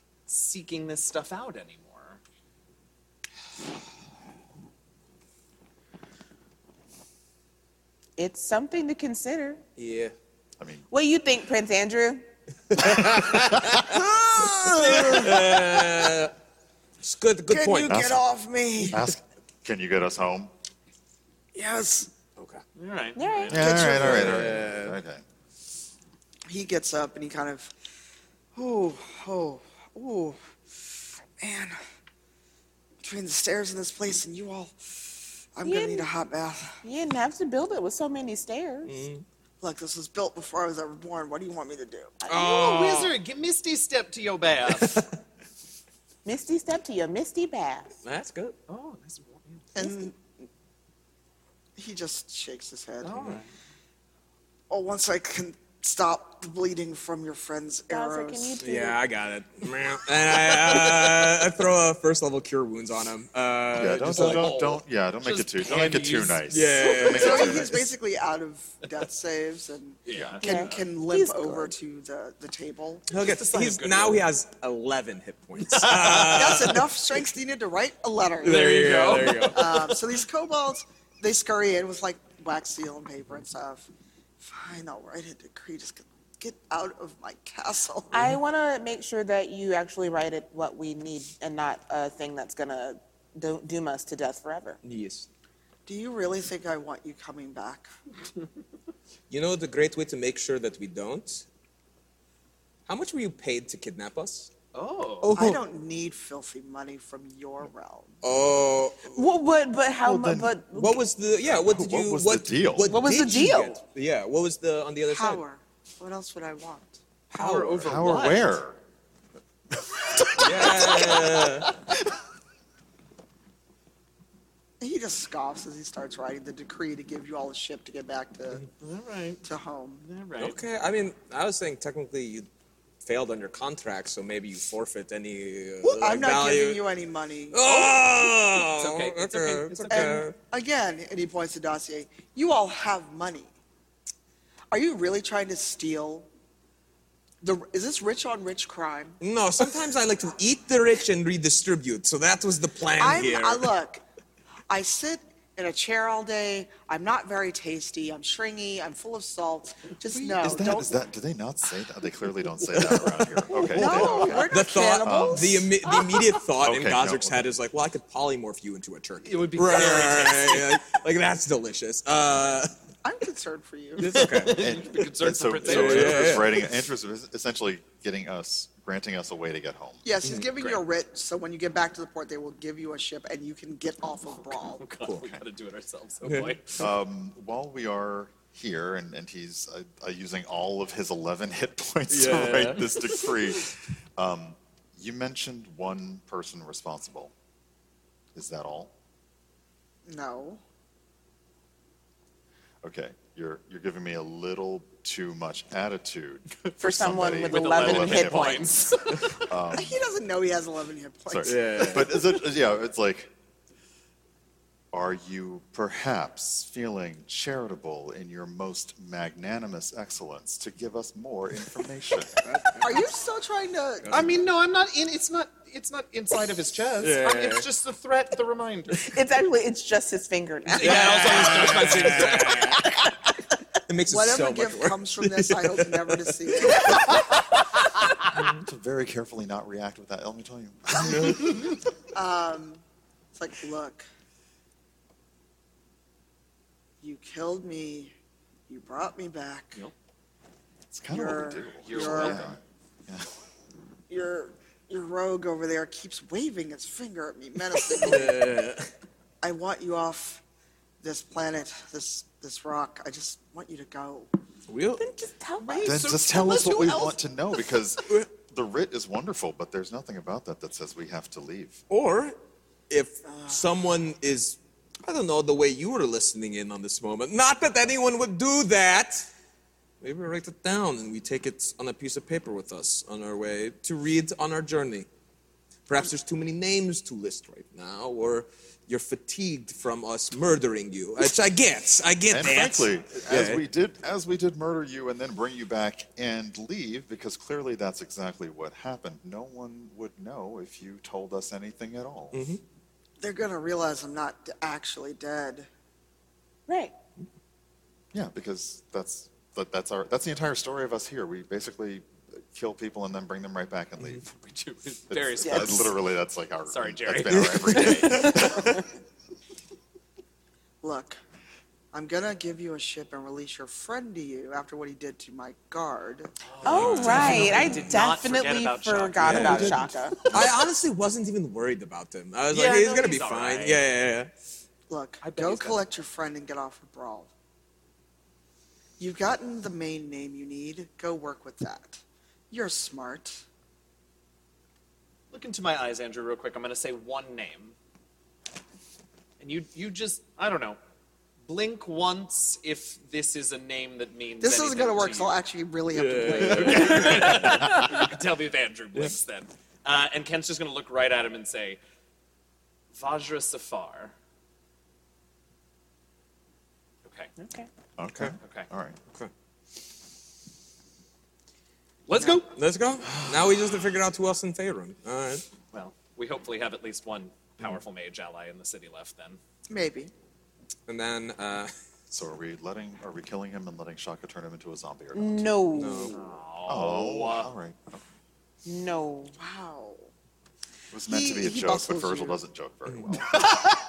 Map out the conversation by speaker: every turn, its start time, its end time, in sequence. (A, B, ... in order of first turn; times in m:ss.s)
0:00.3-0:02.2 A
0:08.2-0:09.6 B
0:09.8-0:10.1 C
0:10.9-0:12.3 B
0:12.7-0:16.3 C
0:13.6-0:14.0 D
0:13.9-0:15.6 E
0:17.0-0:18.1 C
0:17.5-0:19.1 E
0:17.8-0:18.2 D
0:18.8-0:20.5 D
0:21.5-0:22.1 E
0:22.4-0:22.6 C
0:22.8-0:23.7 A
0:23.2-0:23.6 B
0:23.5-0:24.6 E
0:23.5-0:25.2 D
0:23.8-0:25.0 C
0:26.5-0:27.7 E
0:28.6-0:30.4 E
0:31.4-0:31.8 E
0:33.0-0:36.7 E
0:35.6-0:36.1 B
0:36.8-0:39.0 B
0:38.8-0:39.2 C
0:39.6-0:42.1 E
0:42.2-0:42.5 B
0:42.3-0:43.2 C
0:42.3-0:45.0 A
0:44.7-0:45.1 C
0:46.2-0:47.9 B
0:48.0-0:48.6 C
0:48.7-0:49.7 A
0:49.7-0:50.2 E
0:51.8-0:53.1 E
0:53.0-0:53.5 A
0:53.1-0:53.4 C
0:54.7-0:58.6 E
0:57.9-0:59.0 B
0:58.6-1:04.5 C
1:03.8-1:07.8 D
1:04.1-1:06.4 A
1:06.5-1:07.8 C
1:06.9-1:13.1 E
1:06.9-1:07.5 A
1:10.1-1:10.6 A
1:10.1-1:10.4 D
1:10.4-1:11.7 B
1:13.1-1:16.9 C
1:13.1-1:14.3 A
1:15.6-1:16.4 A
1:16.2-1:18.7 E
1:18.4-1:19.9 C
1:18.4-1:19.6 A
1:19.5-1:23.9 E
1:24.4-1:28.1 E
1:28.1-1:34.8 B
1:28.1-1:28.4 C
1:34.8-1:35.3 C
1:35.9-1:37.9 E
1:39.3-1:41.5 C
1:42.9-1:44.5 C
1:44.7-1:45.3 A
1:45.2-1:45.6 C
1:45.3-1:48.2 E
1:48.2-1:49.3 C
1:49.1-1:51.0 B
1:50.0-1:50.6 D
1:50.7-1:55.4 C
1:51.5-1:52.9 D
1:52.9-1:53.8 B
1:55.1-1:57.0 E
1:57.3-1:58.6 A
1:57.4-1:58.8 D
1:57.4-1:57.7 C
2:00.4-2:01.7 C
2:00.4-2:01.8 A
2:04.8-2:08.7 E
2:08.8-2:09.4 A
2:09.4-2:10.0 E
2:10.0-2:10.6 A
2:10.4-2:12.5 C
2:13.0-2:16.9 C
2:15.8-2:17.6 E
2:17.5-2:20.4 C
2:17.6-2:20.2 A
2:19.9-2:23.5 E
2:24.7-2:26.3 E
2:27.4-2:29.2 E
2:29.2-2:33.7 C
2:33.0-2:34.0 E
2:34.7-2:41.0 E
2:40.2-2:45.6 D
2:42.7-2:52.7 C
2:43.6-2:45.6 E
2:43.8-2:44.4 A
2:45.9-2:46.4 A
2:46.6-2:47.4 D
2:49.2-2:50.8 A
2:53.0-2:54.2 E
2:54.0-2:54.6 C
2:54.0-2:56.6 A
2:54.6-3:00.1 D
2:55.6-2:56.7 C
3:00.0-3:04.8 E
3:04.8-3:06.8 A
3:05.1-3:05.4 D
3:06.2-3:06.6 C
3:06.8-3:17.3 D
3:12.1-3:12.9 C
3:18.3-3:18.9 D
3:20.1-3:20.6 E
3:22.8-3:28.7 D
3:26.8-3:28.9 B
3:27.4-3:29.4 A
3:29.3-3:30.0 D
3:29.7-3:32.2 E
3:31.3-3:33.3 D
3:31.4-3:32.2 C
3:34.9-3:42.4 D
3:42.4-3:43.0 C
3:42.8-3:44.2 E
3:44.0-3:44.3 C
3:44.1-3:49.1 A
3:47.0-3:47.7 C
3:49.0-3:51.5 B
3:50.7-3:52.8 A
3:50.8-3:52.9 C
3:52.6-3:53.1 B
3:53.9-3:57.1 C
3:54.1-3:57.3 E
3:58.4-3:58.6 C
3:58.6-4:01.8 D
4:01.1-4:01.4 C
4:02.1-4:02.8 E
4:03.4-4:04.0 E
4:07.0-4:08.1 E
4:08.7-4:09.8 E
4:10.9-4:13.3 D
4:11.1-4:12.5 E
4:11.8-4:12.6 A
4:14.1-4:18.4 E
4:17.8-4:18.9 C
4:19.4-4:20.4 E
4:21.0-4:24.3 E
4:24.7-4:25.1 C
4:25.0-4:26.0 B
4:25.6-4:27.2 A
4:25.8-4:31.8 D
4:31.9-4:32.4 C
4:32.9-4:39.3 C
4:33.2-4:33.7 E
4:40.0-4:45.1 C
4:45.9-4:53.6 C
4:52.3-5:02.4 D
5:02.3-5:02.6 C
5:03.2-5:05.7 E
5:06.7-5:06.9 B
5:08.1-5:14.2 D
5:14.3-5:16.0 A
5:15.1-5:18.8 D
5:15.5-5:15.7 B
5:16.7-5:18.1 A
5:17.3-5:18.7 C
5:18.0-5:18.8 B
5:20.8-5:21.2 E
5:21.9-5:26.3 E
5:26.4-5:30.6 A
5:26.6-5:30.2 B
5:26.7-5:28.0 C
5:29.2-5:34.3 C
5:32.5-5:33.8 A
5:34.9-5:37.3 E
5:35.2-5:35.8 A
5:39.0-5:43.4 E
5:45.3-5:47.8 A
5:49.4-5:50.8 A
5:51.5-5:55.4 A
5:54.4-5:57.3 E
5:55.9-5:57.9 C
5:56.5-6:01.8 A
6:03.0-6:04.1 A
6:07.0-6:07.3 A
6:07.4-6:07.7 B
6:08.0-6:09.0 D
6:08.4-6:08.7 A
6:12.1-6:12.5 A
6:12.5-6:15.5 C
6:15.7-6:19.4 A
6:19.7-6:20.1 E
6:20.9-6:21.7 C
6:22.1-6:25.6 D
6:25.1-6:26.2 B
6:25.7-6:26.3 C
6:26.1-6:27.5 A
6:26.7-6:28.0 D
6:28.6-6:29.4 B
6:29.4-6:30.1 E
6:30.9-6:33.4 D
6:31.1-6:32.4 E
6:33.3-6:33.7 A
6:33.4-6:33.6 E